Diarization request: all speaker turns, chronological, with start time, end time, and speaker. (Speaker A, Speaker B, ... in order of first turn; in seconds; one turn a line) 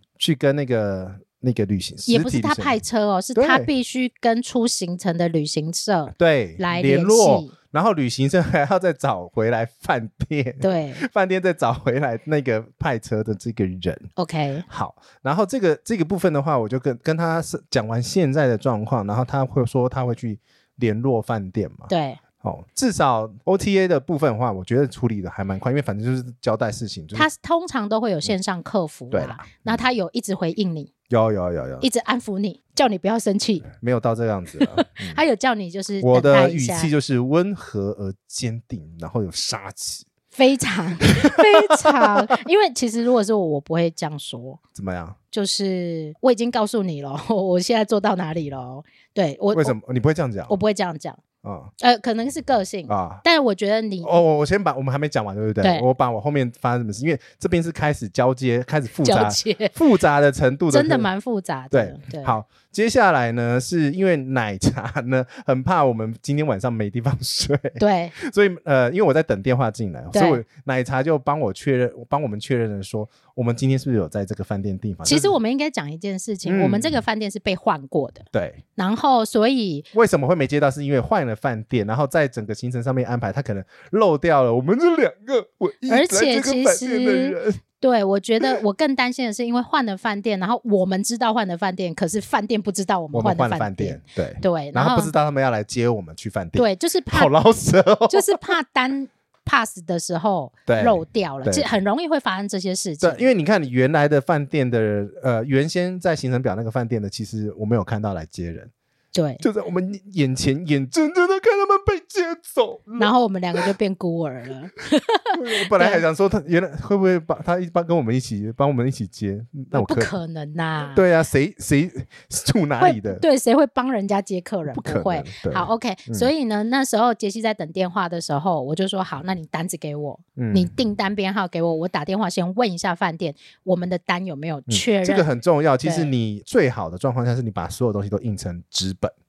Speaker A: 0.2-2.8
Speaker B: 2.1-7.5
Speaker A: 3.3-3.7
Speaker A: 6.2-14.1
Speaker B: 10.6-11.0
Speaker B: 14.2-14.7
Speaker A: 14.7-21.9
Speaker B: 21.9-22.2
Speaker A: 22.4-27.3
Speaker B: 27.1-30.9
Speaker A: 29.1-29.8
Speaker A: 31.1-31.8
Speaker B: 31.8-33.6
Speaker A: 33.7-35.2
Speaker B: 34.7-36.9
Speaker A: 36.0-40.1
Speaker B: 40.3-44.6
Speaker A: 41.2-42.1
Speaker A: 44.7-45.2
Speaker B: 45.3-49.8
Speaker A: 49.5-50.6
Speaker B: 50.5-51.2
Speaker A: 51.4-51.7
Speaker B: 51.8-54.2
Speaker A: 52.9-53.2
Speaker A: 54.0-61.1
Speaker B: 59.0-59.7
Speaker B: 60.7-62.4
Speaker A: 61.7-75.3
Speaker B: 67.8-68.1
Speaker B: 70.1-70.4
Speaker B: 75.0-79.9
Speaker A: 76.5-77.0
Speaker A: 78.3-78.6
Speaker A: 79.9-87.6
Speaker B: 85.9-95.1
Speaker A: 93.1-98.5
Speaker B: 96.5-97.3
Speaker B: 98.1-103.2
Speaker A: 100.7-101.7
Speaker A: 103.0-108.7
Speaker B: 109.1-109.4
Speaker A: 109.4-113.6
Speaker B: 113.0-116.0
Speaker A: 115.3-120.1
Speaker B: 119.7-121.0
Speaker A: 120.9-123.2
Speaker B: 122.8-135.3
Speaker A: 124.7-126.3
Speaker A: 130.4-130.7
Speaker A: 134.7-139.1
Speaker B: 135.8-136.1